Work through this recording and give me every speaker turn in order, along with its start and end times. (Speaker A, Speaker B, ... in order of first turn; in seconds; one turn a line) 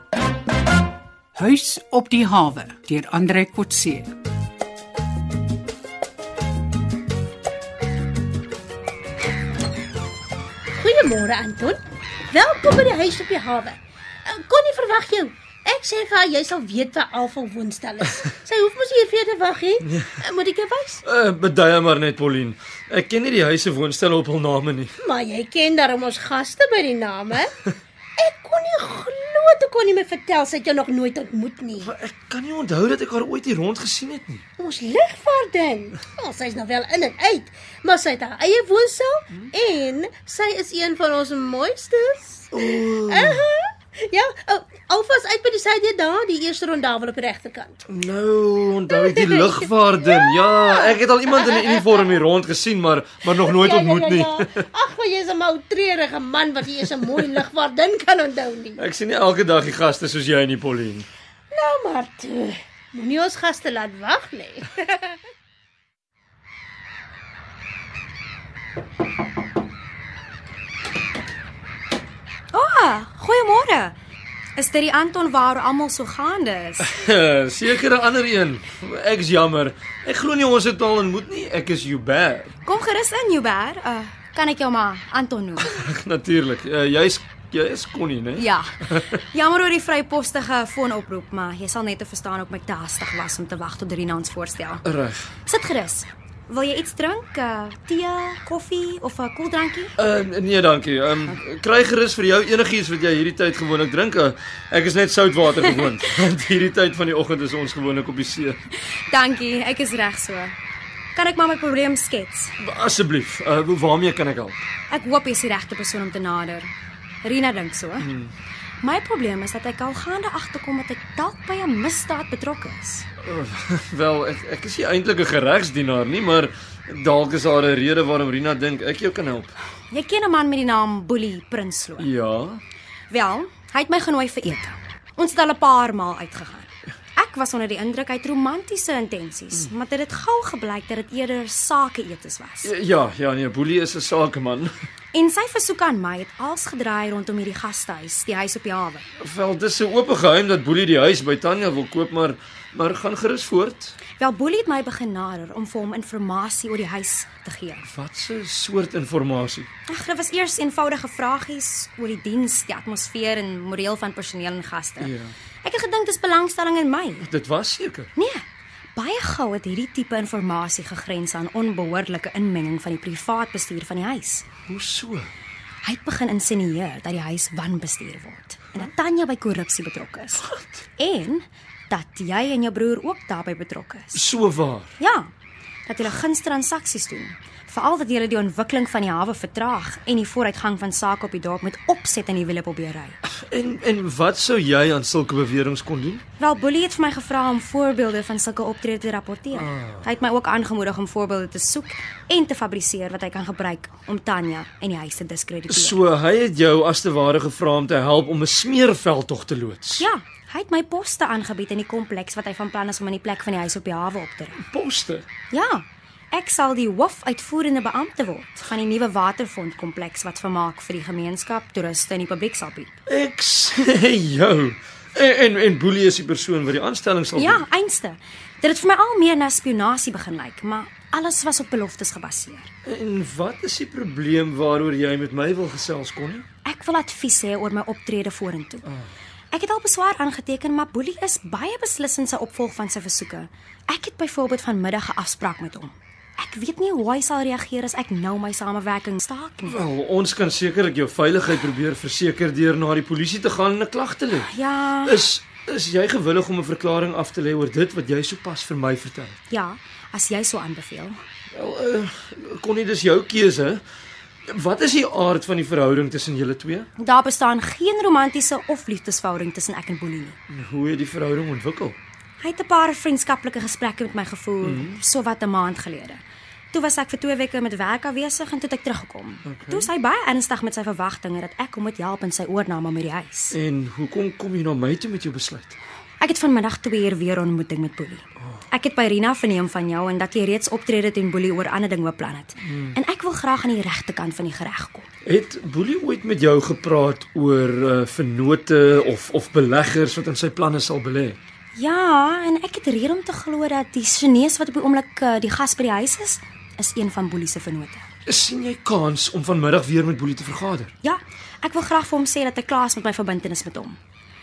Speaker A: 1.4-4.1
Speaker B: 10.7-11.8
Speaker B: 12.3-21.0
Speaker C: 19.8-20.2
Speaker C: 21.0-24.9
Speaker B: 25.0-27.5
Speaker B: 28.2-31.9
Speaker C: 31.8-34.4
Speaker B: 34.6-47.8
Speaker C: 42.5-43.4
Speaker C: 47.9-54.7
Speaker B: 48.9-49.5
Speaker B: 50.0-52.0
Speaker B: 53.4-58.8
Speaker C: 58.8-61.1
Speaker B: 61.5-65.2
Speaker D: 72.5-73.9
Speaker D: 74.6-76.8
Speaker C: 76.8-82.5
Speaker D: 82.6-85.7
Speaker C: 85.6-89.1
Speaker D: 88.4-94.8
Speaker C: 94.8-95.3
Speaker D: 95.5-99.9
Speaker C: 100.0-108.6
Speaker D: 108.9-110.5
Speaker D: 111.1-112.5
Speaker C: 112.6-114.6
Speaker D: 114.9-116.7
Speaker D: 117.2-118.1
Speaker C: 118.0-118.3
Speaker D: 118.8-123.1
Speaker C: 123.2-129.5
Speaker D: 129.9-132.1
Speaker C: 132.0-132.6
Speaker D: 133.1-142.7
Speaker C: 142.6-144.7
Speaker D: 145.1-149.1
Speaker C: 149.2-153.9
Speaker D: 154.2-157.8
Speaker C: 157.8-159.7
Speaker D: 159.9-167.3
Speaker C: 165.0-165.3
Speaker C: 167.2-168.1
Speaker D: 168.2-168.4
Speaker D: 168.9-174.4
Speaker C: 174.7-175.3
Speaker D: 175.8-180.4
Speaker C: 180.4-180.8
Speaker D: 181.0-184.2
Speaker C: 184.1-184.9
Speaker D: 185.0-185.3
Speaker D: 185.8-193.2
Speaker C: 193.3-196.2
Speaker D: 196.4-206.0
Speaker C: 199.5-200.0
Speaker C: 205.7-210.0
Speaker D: 210.0-214.6
Speaker C: 214.6-215.2
Speaker D: 215.5-222.9
Speaker C: 223.1-227.6
Speaker D: 227.3-232.7
Speaker C: 232.8-236.4
Speaker D: 236.6-238.8
Speaker D: 239.5-249.8
Speaker C: 249.7-254.5
Speaker D: 254.4-255.2
Speaker C: 255.0-259.4
Speaker D: 259.5-261.1
Speaker C: 261.5-263.8
Speaker C: 264.5-266.9
Speaker D: 267.0-270.4
Speaker C: 270.5-272.0
Speaker D: 272.4-276.2
Speaker C: 274.6-275.0
Speaker D: 276.7-283.6
Speaker C: 279.4-279.9
Speaker C: 283.5-285.8
Speaker D: 286.2-295.1
Speaker C: 292.7-292.9
Speaker C: 295.2-301.4
Speaker D: 301.7-308.0
Speaker C: 308.3-310.9
Speaker D: 311.0-314.0